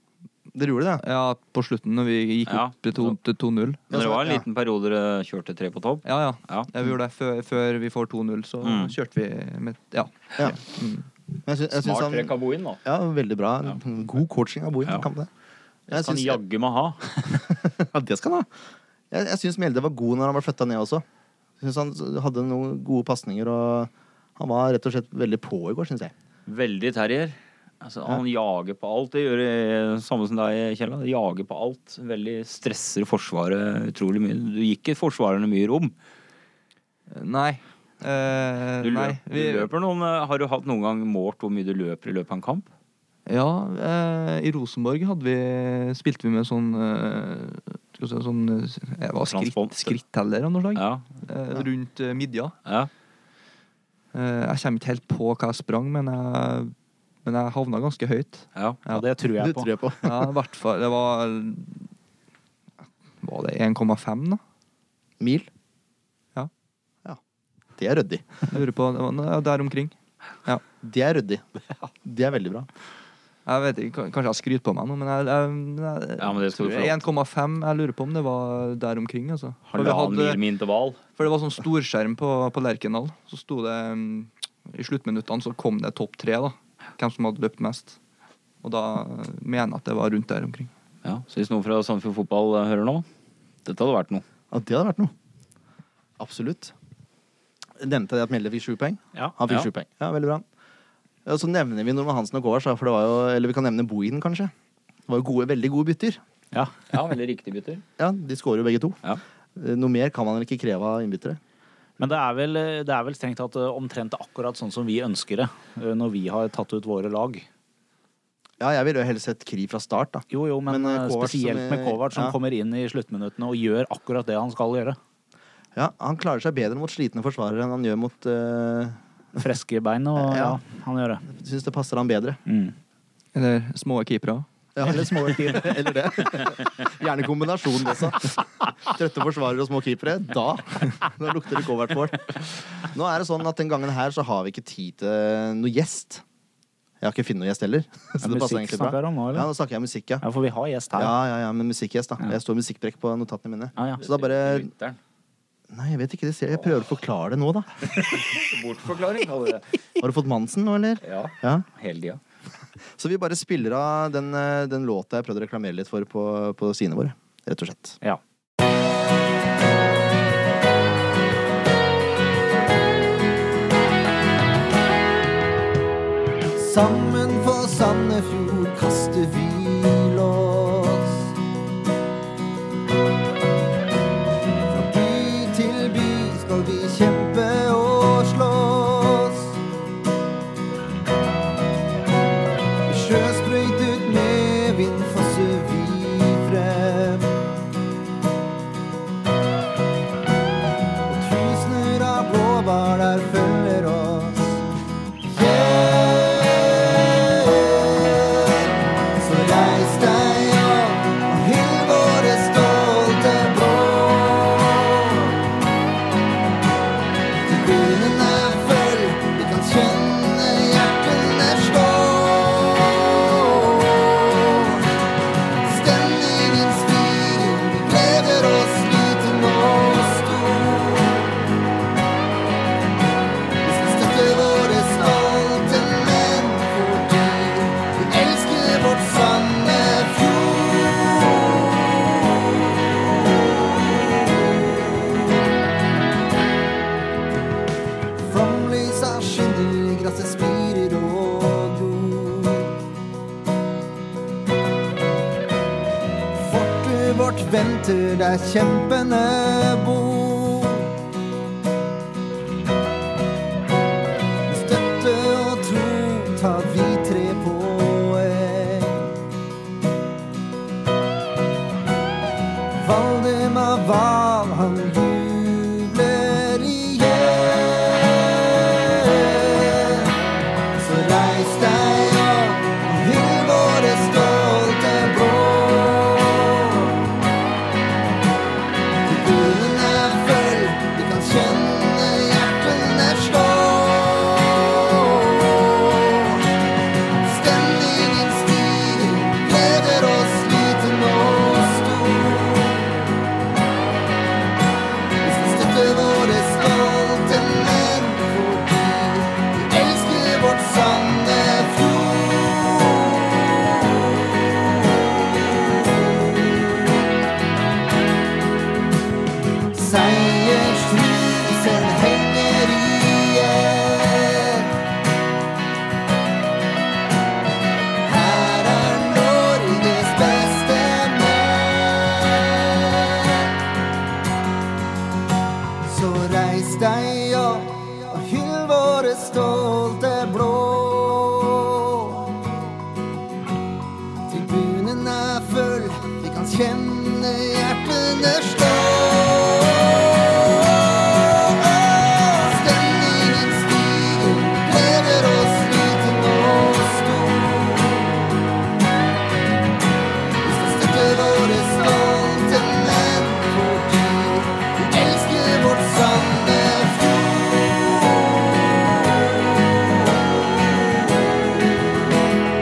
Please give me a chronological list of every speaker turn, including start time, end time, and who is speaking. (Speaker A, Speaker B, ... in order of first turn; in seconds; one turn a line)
Speaker A: 0.5-1.0
Speaker B: 1.0-3.8
Speaker C: 2.5-3.2
Speaker A: 3.9-4.4
Speaker C: 3.9-6.7
Speaker B: 6.0-11.1
Speaker C: 8.6-8.9
Speaker A: 11.4-12.3
Speaker C: 11.8-12.8
Speaker A: 12.8-15.3
Speaker C: 15.9-17.2
Speaker A: 15.9-16.4
Speaker A: 17.2-18.5
Speaker A: 19.1-21.0
Speaker A: 21.6-26.1
Speaker C: 26.5-35.9
Speaker B: 37.1-39.7
Speaker C: 38.8-42.7
Speaker B: 43.3-52.5
Speaker C: 49.3-50.0
Speaker C: 50.7-51.0
Speaker C: 52.6-52.9
Speaker B: 54.1-56.7
Speaker B: 57.2-59.0
Speaker D: 58.9-59.7
Speaker A: 59.4-60.3
Speaker B: 60.0-61.8
Speaker B: 63.2-64.4
Speaker A: 65.2-65.5
Speaker A: 67.8-68.4
Speaker B: 68.5-70.6
Speaker A: 70.8-72.7
Speaker B: 73.5-80.4
Speaker C: 76.2-77.0
Speaker C: 79.7-81.0
Speaker B: 81.2-88.0
Speaker B: 88.6-90.7
Speaker C: 91.0-93.0
Speaker C: 93.6-94.2
Speaker A: 94.5-95.1
Speaker A: 96.2-96.7
Speaker A: 97.8-100.4
Speaker A: 101.2-104.5
Speaker A: 105.1-106.2
Speaker D: 106.5-106.9
Speaker C: 106.9-107.8
Speaker A: 108.0-109.0
Speaker A: 109.5-111.4
Speaker D: 112.0-117.5
Speaker A: 118.6-122.3
Speaker D: 120.3-125.0
Speaker A: 125.7-129.0
Speaker D: 129.4-131.2
Speaker A: 130.2-130.6
Speaker A: 131.3-132.4
Speaker D: 132.5-132.7
Speaker B: 133.3-134.4
Speaker A: 134.7-146.2
Speaker D: 134.8-135.9
Speaker A: 147.0-150.2
Speaker D: 148.2-149.5
Speaker D: 150.2-151.1
Speaker A: 150.9-154.7
Speaker D: 153.8-154.0
Speaker C: 154.0-155.0
Speaker A: 155.7-157.7
Speaker C: 157.8-159.8
Speaker A: 160.0-161.6
Speaker C: 161.0-162.2
Speaker A: 162.9-168.0
Speaker E: 176.6-181.3
Speaker E: 184.7-189.6
Speaker E: 192.9-197.3
Speaker E: 201.1-204.6
Speaker E: 205.3-215.3
Speaker E: 217.4-224.8
Speaker E: 225.6-231.5
Speaker E: 233.6-242.6
Speaker E: 243.2-245.4
Speaker E: 248.2-252.7
Speaker E: 256.3-260.9
Speaker E: 264.5-269.1
Speaker E: 272.7-280.1
Speaker E: 280.7-286.9
Speaker E: 289.0-296.4
Speaker E: 297.2-303.1
Speaker E: 305.2-317.0
Speaker E: 319.7-324.7
Speaker E: 328.0-333.5
Speaker E: 335.8-342.4
Speaker E: 344.3-358.3
Speaker E: 360.4-368.9
Speaker E: 370.4-371.3